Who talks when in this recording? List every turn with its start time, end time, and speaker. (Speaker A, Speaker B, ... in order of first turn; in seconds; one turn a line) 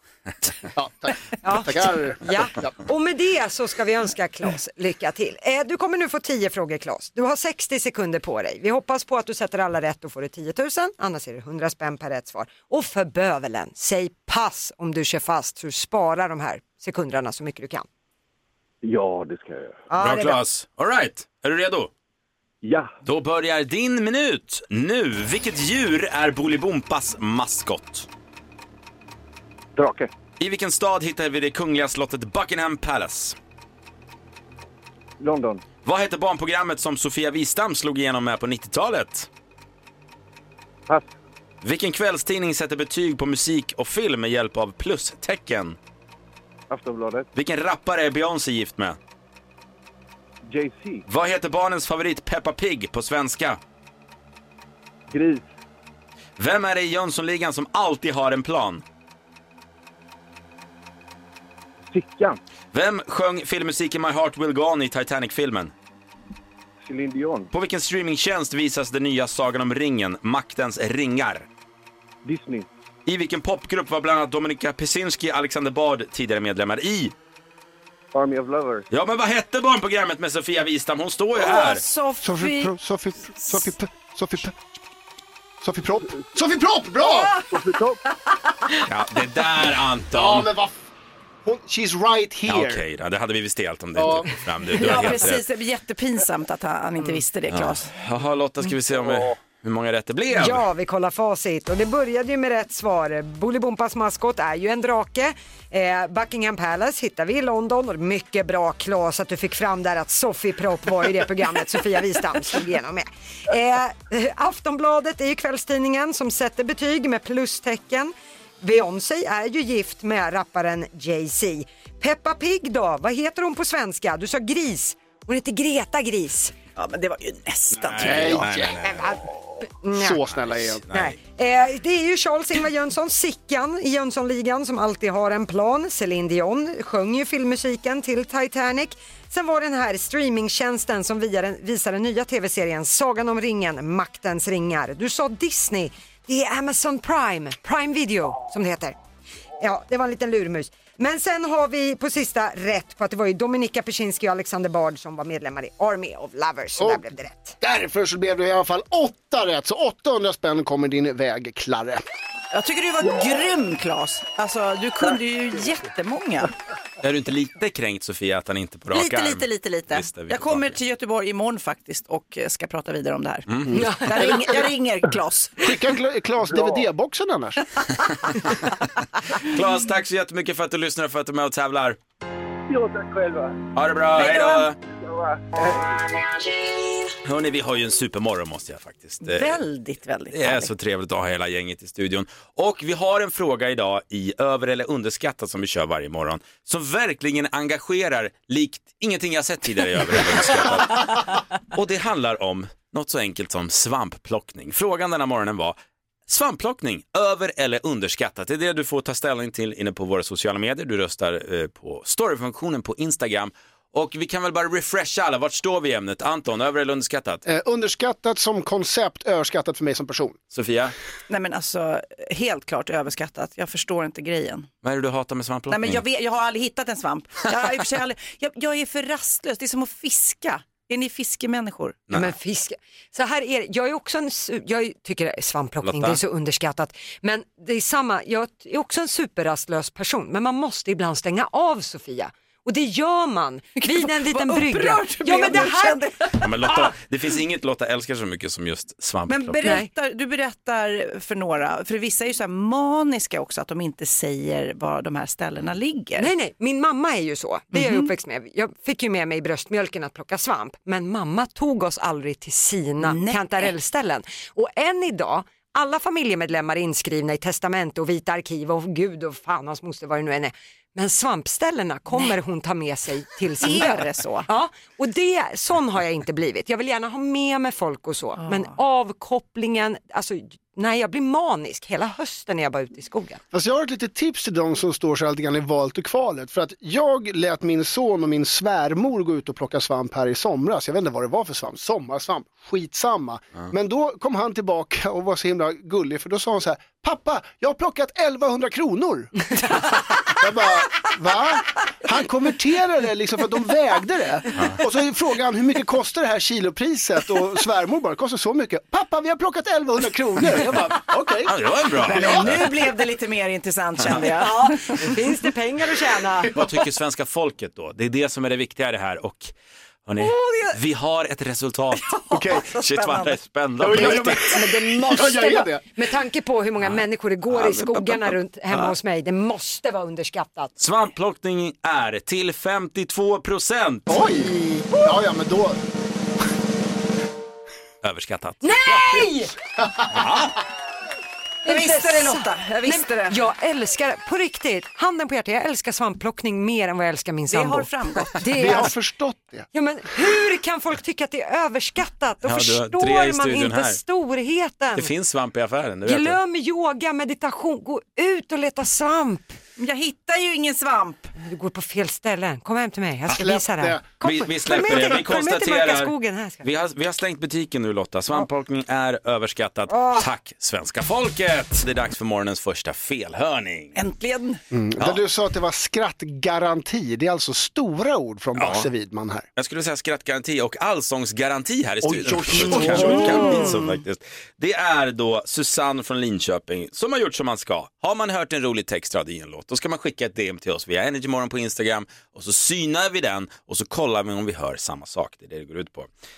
Speaker A: 0.7-2.7
Speaker B: 1.4-17.9
Speaker C: 18.8-19.8
Speaker B: 19.9-20.4
Speaker D: 20.0-21.9
Speaker C: 22.6-22.9
Speaker D: 23.0-28.1
Speaker C: 29.8-30.1
Speaker D: 30.4-33.4
Speaker C: 35.2-35.6
Speaker D: 35.8-39.3
Speaker D: 41.6-45.8
Speaker C: 46.7-47.3
Speaker D: 47.3-49.0
Speaker C: 50.5-51.0
Speaker D: 51.1-53.6
Speaker C: 55.1-55.4
Speaker D: 56.4-58.8
Speaker C: 61.9-62.4
Speaker D: 62.7-65.7
Speaker C: 66.8-67.5
Speaker D: 67.5-71.5
Speaker C: 72.2-72.7
Speaker D: 73.0-77.1
Speaker C: 78.1-78.8
Speaker D: 78.9-81.8
Speaker E: 81.3-82.7
Speaker A: 82.2-84.6
Speaker E: 83.3-83.7
Speaker A: 85.6-87.3
Speaker E: 87.0-87.5
Speaker C: 87.5-88.0
Speaker D: 88.8-90.5
Speaker A: 90.1-90.8
Speaker A: 91.4-92.8
Speaker D: 92.5-95.4
Speaker A: 94.0-94.3
Speaker E: 94.7-97.9
Speaker D: 97.5-100.6
Speaker B: 100.3-126.5
Speaker E: 126.8-128.5
Speaker D: 127.7-129.2
Speaker A: 128.0-129.2
Speaker B: 129.8-130.2
Speaker A: 129.9-130.8
Speaker D: 130.4-131.2
Speaker B: 130.9-148.9
Speaker B: 149.6-157.6
Speaker A: 156.8-157.0
Speaker A: 157.6-162.0
Speaker E: 162.5-166.5
Speaker D: 167.0-170.7
Speaker E: 168.9-175.8
Speaker D: 173.5-173.9
Speaker B: 173.8-174.1
Speaker A: 175.6-177.6
Speaker C: 176.5-176.8
Speaker D: 178.1-178.6
Speaker D: 179.3-182.0
Speaker C: 182.7-183.6
Speaker D: 183.7-184.8
Speaker E: 184.2-184.7
Speaker C: 185.0-186.0
Speaker D: 187.2-189.6
Speaker E: 189.2-190.7
Speaker D: 190.3-217.4
Speaker A: 217.4-220.4
Speaker D: 220.5-220.9
Speaker E: 221.3-224.7
Speaker D: 224.8-226.0
Speaker E: 225.7-232.0
Speaker B: 232.1-246.0
Speaker D: 235.8-236.2
Speaker E: 243.8-246.9
Speaker D: 246.4-249.6
Speaker E: 249.3-256.3
Speaker B: 249.6-249.9
Speaker B: 256.2-283.4
Speaker E: 257.7-258.1
Speaker E: 263.0-263.7
Speaker E: 273.6-274.5
Speaker E: 278.4-278.7
Speaker A: 283.5-299.5
Speaker A: 300.3-312.7
Speaker D: 311.4-312.6
Speaker E: 312.0-315.2
Speaker B: 314.2-316.5
Speaker D: 316.5-319.5
Speaker D: 320.1-324.5
Speaker E: 320.2-320.8
Speaker E: 322.0-324.9
Speaker A: 322.3-322.6
Speaker A: 323.8-325.8
Speaker B: 324.4-330.7
Speaker D: 327.5-328.9
Speaker D: 330.8-334.2
Speaker A: 334.1-335.8
Speaker D: 338.0-338.6
Speaker B: 338.6-339.5
Speaker A: 338.9-339.2
Speaker D: 340.1-340.6
Speaker B: 341.6-348.9
Speaker E: 341.6-343.4
Speaker E: 347.5-348.8
Speaker A: 348.5-349.7
Speaker B: 349.7-355.1
Speaker D: 352.4-354.0
Speaker D: 354.9-356.4
Speaker B: 356.0-359.6
Speaker E: 359.8-361.3
Speaker B: 361.4-366.6
Speaker A: 363.3-364.0
Speaker D: 364.2-374.0
Speaker B: 369.9-370.3
Speaker E: 373.9-374.6
Speaker A: 374.7-379.4
Speaker D: 378.6-378.9
Speaker D: 379.6-396.1
Speaker A: 382.0-383.7
Speaker E: 382.7-384.0